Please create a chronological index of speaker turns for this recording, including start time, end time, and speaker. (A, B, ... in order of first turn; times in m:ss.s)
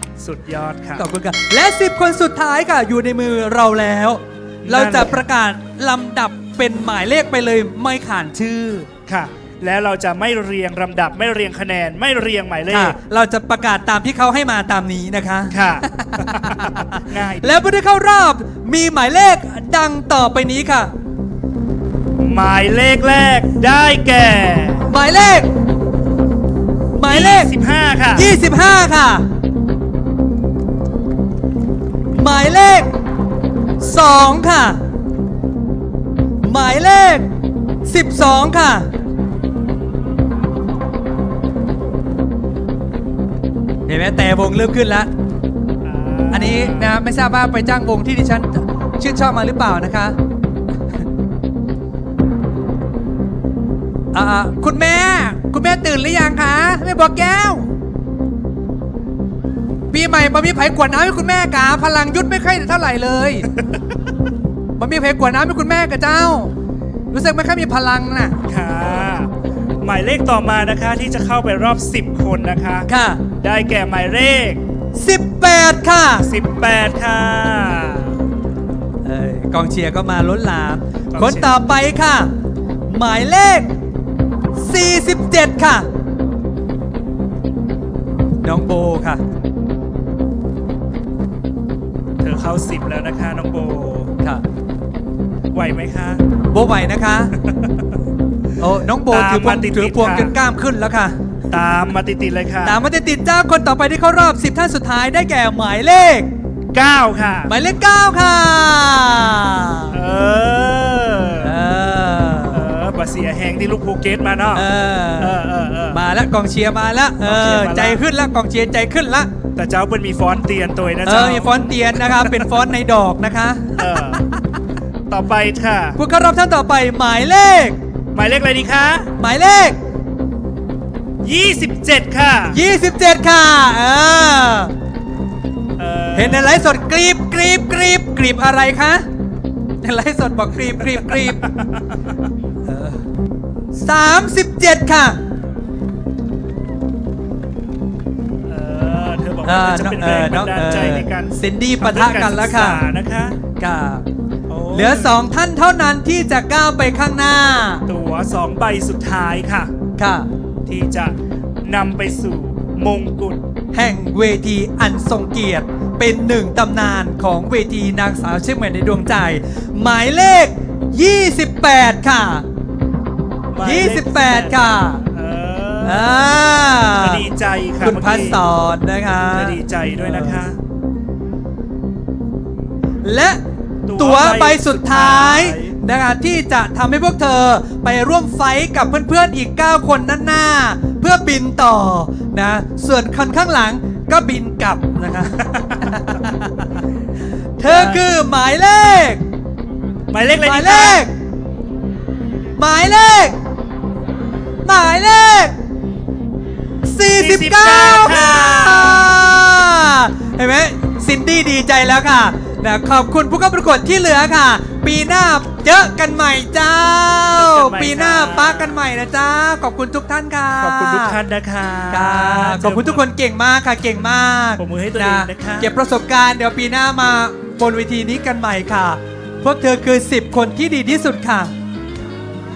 0:00.2-0:01.0 A
0:01.0-0:08.9 B
0:04.6-0:05.2 A
0:09.1-0:13.0 A
0:12.7-0:20.9 B
0:15.5-0:17.6 A
0:22.2-0:24.9 A
0:24.9-0:25.5 B
0:27.0-0:27.5 B
0:27.1-0:28.3 A
0:28.2-0:29.2 B
0:32.1-0:32.9 B
0:33.8-0:34.8 B
0:36.4-0:37.3 B
0:37.8-0:38.9 B
0:43.9-0:45.1 B
0:45.8-0:46.9 A
0:46.3-0:50.2 B
0:54.1-0:57.7 B
0:59.9-1:03.5 B
1:04.8-1:06.5 B
1:07.1-1:08.4 B
1:08.4-1:12.9 A
1:12.9-1:13.2 B
1:13.4-1:14.6 A
1:15.0-1:16.3 B
1:16.2-1:18.2 A
1:19.0-1:22.3 B
1:21.1-1:21.5 A
1:22.9-1:23.7 B
1:24.6-1:25.9 B
1:28.4-1:29.2 B
1:32.2-1:34.1 A
1:35.5-1:36.2 A
1:36.5-1:37.3 B
1:37.4-1:38.0 A
1:38.6-1:41.2 B
1:39.1-1:40.4 A
1:41.5-1:42.8 A
1:42.6-1:46.3 B
1:46.7-1:47.5 A
1:47.5-1:49.9 B
1:49.9-1:51.5 A
1:51.4-1:52.7 B
1:52.5-1:54.7 A
1:54.6-1:55.4 B
1:55.2-1:56.0 A
1:55.9-1:59.3 B
1:57.2-1:58.0 A
1:59.6-2:02.5 A
2:01.0-2:04.2 B
2:03.8-2:04.2 A
2:05.1-2:06.0 A
2:06.0-2:07.8 B
2:08.1-2:09.1 A
2:09.2-2:09.8 B
2:11.2-2:12.6 A
2:12.5-2:14.7 B
2:15.8-2:16.7 A
2:16.2-2:19.0 B
2:19.8-2:21.4 B
2:20.8-2:22.1 A
2:22.6-2:23.0 B
2:23.8-2:25.2 B
2:28.4-2:33.4 A
2:29.4-2:32.8 B
2:33.6-2:34.1 B
2:34.5-2:35.2 A
2:34.7-2:37.8 B
2:37.9-2:39.7 A
2:40.0-2:40.3 B
2:40.7-2:43.4 A
2:43.7-2:52.5 B
2:53.5-2:56.4 A
2:53.6-2:55.0 B
2:55.8-2:57.2 B
2:56.9-2:58.4 A
2:57.8-3:00.4 B
2:59.3-3:00.6 A
3:03.0-3:03.4 B
3:03.9-3:05.8 A
3:04.0-3:16.8 B
3:15.3-3:16.0 A
3:17.6-3:19.2 B
3:17.6-3:18.0 A
3:20.1-3:21.1 A
3:20.4-3:21.1 B
3:22.6-3:23.4 B
3:24.6-3:25.6 B
3:26.8-3:41.2 B
3:27.2-3:29.4 A
3:37.3-3:38.8 A
3:40.6-3:43.0 A
3:41.9-3:51.5 B
3:44.6-3:45.7 A